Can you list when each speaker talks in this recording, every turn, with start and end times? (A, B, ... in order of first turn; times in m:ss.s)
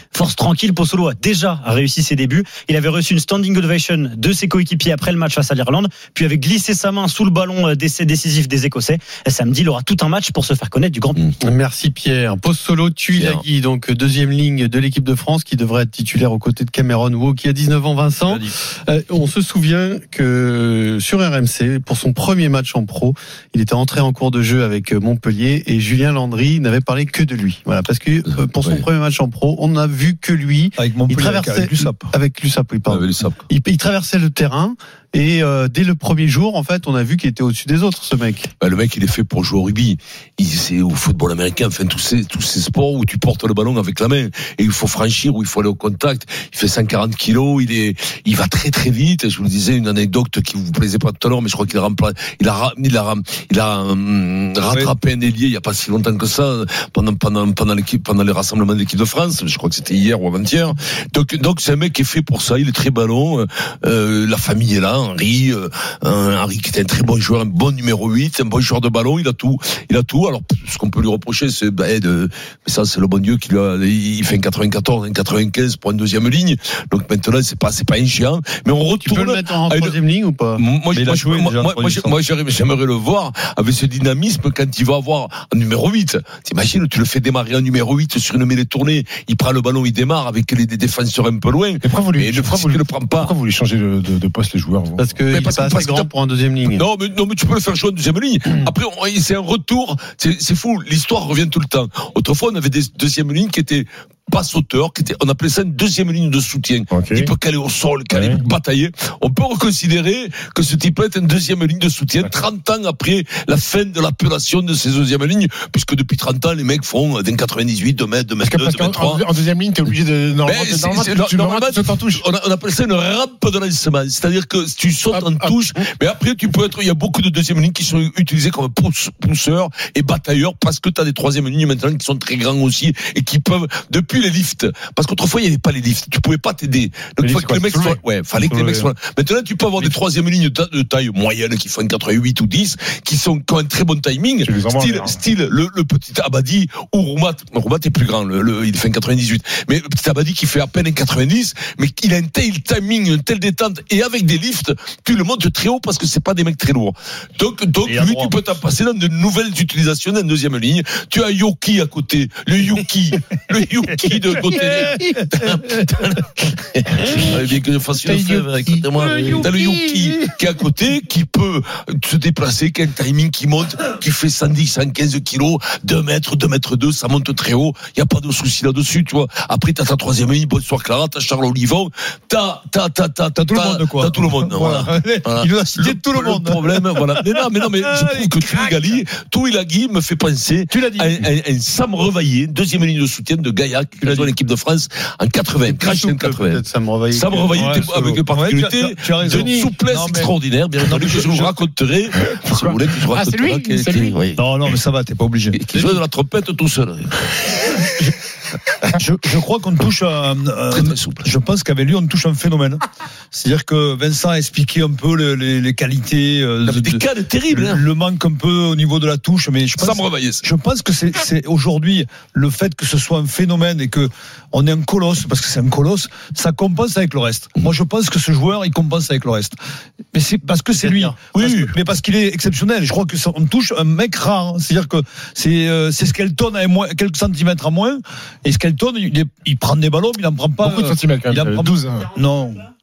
0:00.1-0:11.2 A
0:11.4-0:38.5 B
0:13.1-0:13.4 C
0:30.8-0:32.1 D
0:32.9-0:33.4 C
0:38.6-1:19.9 C
1:19.0-1:20.6 B
1:20.6-1:33.3 C
1:20.9-1:22.1 D
1:31.8-1:35.0 E
1:35.0-1:36.8 B
1:35.3-1:36.1 C
1:36.7-1:59.2 C
1:46.9-1:47.3 E
1:48.1-1:48.4 E
1:58.4-2:02.2 E
2:00.4-3:16.6 C
2:05.1-2:05.6 E
2:17.2-2:18.0 E
2:24.4-2:25.2 E
2:37.8-2:38.4 D
2:44.1-2:46.0 D
2:48.0-2:48.8 E
2:49.0-2:50.0 D
3:03.4-3:09.0 D
3:10.7-3:11.2 D
3:14.0-3:14.3 D
3:15.7-3:17.7 B
3:17.1-3:24.4 C
3:17.5-3:21.5 D
3:22.4-3:24.1 E
3:24.4-3:26.0 D
3:25.6-3:27.3 C
3:29.0-3:32.8 D
3:30.7-3:31.2 C
3:33.3-3:49.6 D
3:36.6-3:37.8 C
3:39.8-3:40.4 C
3:50.1-4:02.6 D
3:50.8-3:51.2 B
3:51.3-3:51.7 C
4:00.6-4:02.1 E